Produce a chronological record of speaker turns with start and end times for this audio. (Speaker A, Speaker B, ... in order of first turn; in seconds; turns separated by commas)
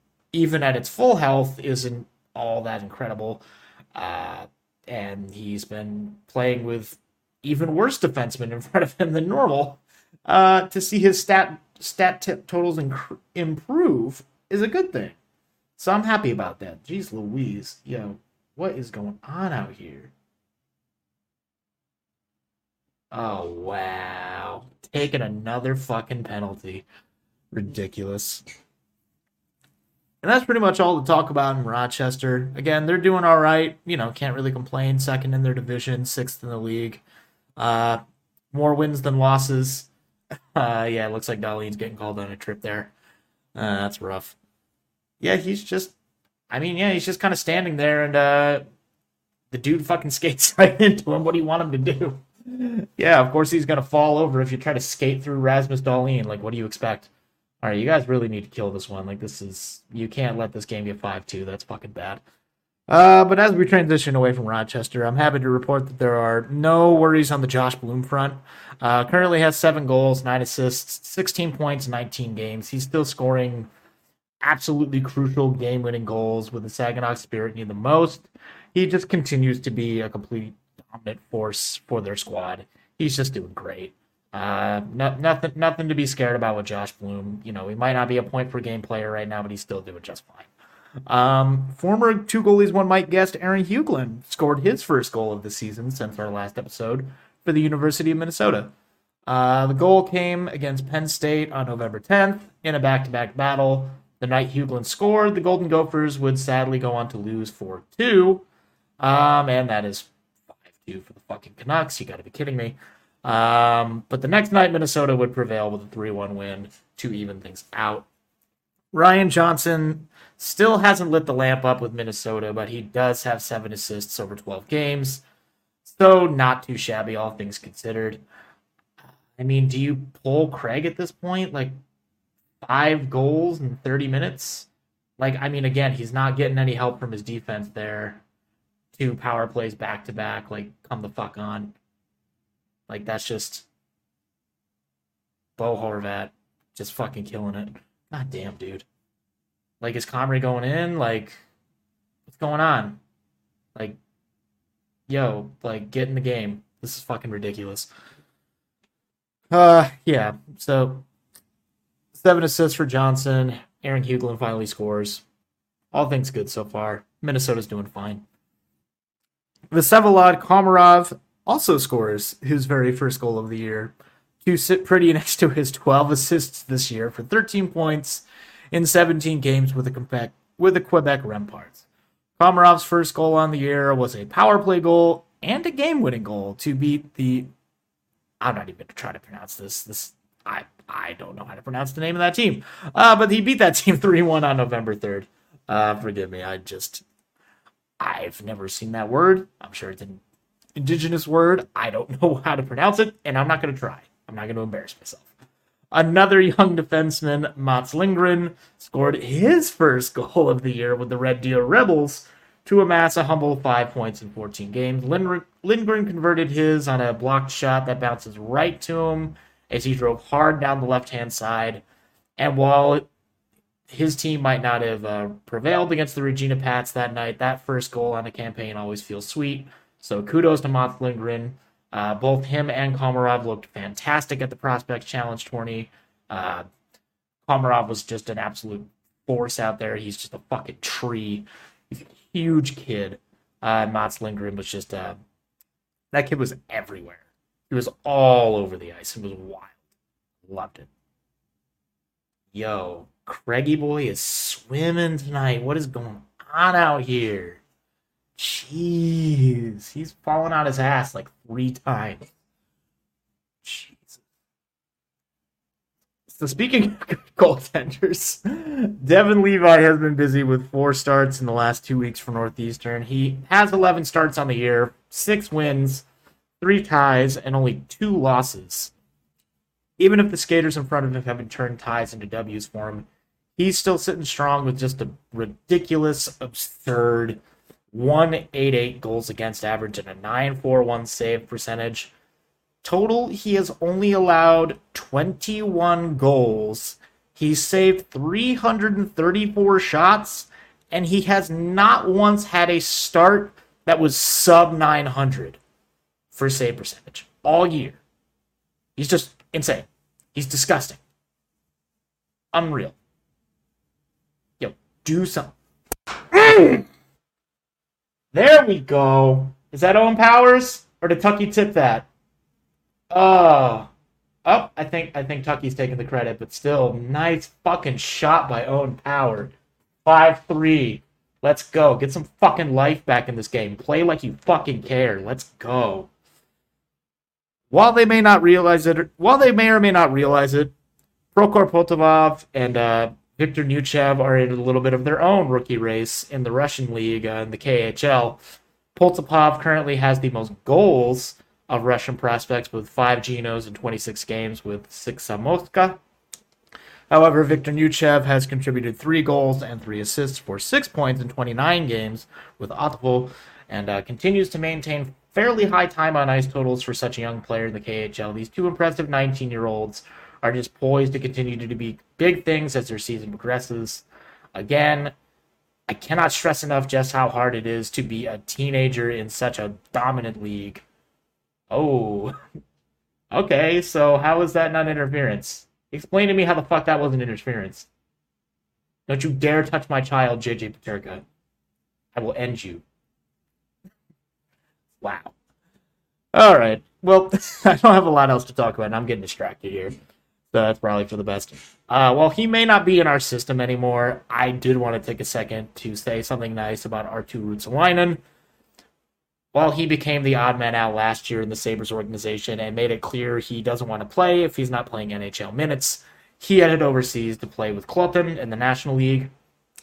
Speaker A: 0.3-15.2, Speaker A: 15.8-20.1, Speaker A: 23.1-26.9, Speaker A: 27.5-28.4, Speaker A: 30.2-37.0, Speaker A: 37.6-38.0, Speaker A: 38.5-39.9, Speaker A: 40.5-42.9, Speaker A: 43.5-44.4, Speaker A: 45.2-45.9, Speaker A: 46.5-48.6, Speaker A: 49.5-57.1, Speaker A: 57.6-62.2, Speaker A: 62.9-73.7, Speaker A: 74.4-90.5, Speaker A: 91.1-98.7, Speaker A: 99.2-108.4, Speaker A: 109.0-118.1, Speaker A: 118.9-125.2, Speaker A: 125.8-128.2, Speaker A: 129.3-131.7, Speaker A: 132.6-138.2, Speaker A: 138.9-141.8, Speaker A: 142.9-143.7, Speaker A: 145.6-148.8, Speaker A: 149.8-151.4, Speaker A: 152.3-153.0, Speaker A: 155.1-157.9, Speaker A: 159.5-161.0, Speaker A: 162.1-165.2, Speaker A: 165.9-168.2, Speaker A: 169.7-181.8, Speaker A: 182.4-187.5, Speaker A: 188.4-197.0, Speaker A: 198.0-200.2, Speaker A: 200.8-205.3, Speaker A: 205.9-221.8, Speaker A: 222.4-223.1, Speaker A: 223.9-236.6, Speaker A: 237.4-245.2, Speaker A: 246.1-249.8, Speaker A: 250.4-250.9, Speaker A: 252.5-257.6, Speaker A: 258.4-262.3, Speaker A: 263.6-264.2, Speaker A: 266.3-276.1, Speaker A: 276.6-278.9, Speaker A: 280.0-287.4, Speaker A: 287.9-292.1, Speaker A: 292.8-305.6, Speaker A: 306.3-308.0, Speaker A: 309.0-311.0, Speaker A: 312.5-312.9, Speaker A: 314.6-315.5, Speaker A: 316.3-316.8, Speaker A: 318.3-322.1, Speaker A: 323.1-323.9, Speaker A: 324.4-336.1, Speaker A: 337.7-340.7, Speaker A: 341.3-348.4, Speaker A: 348.9-356.0, Speaker A: 357.1-375.1, Speaker A: 375.9-380.8, Speaker A: 381.7-382.3, Speaker A: 383.3-387.9, Speaker A: 389.1-391.2, Speaker A: 392.1-392.8, Speaker A: 395.0-395.3, Speaker A: 396.3-400.0, Speaker A: 400.5-408.2, Speaker A: 409.5-419.3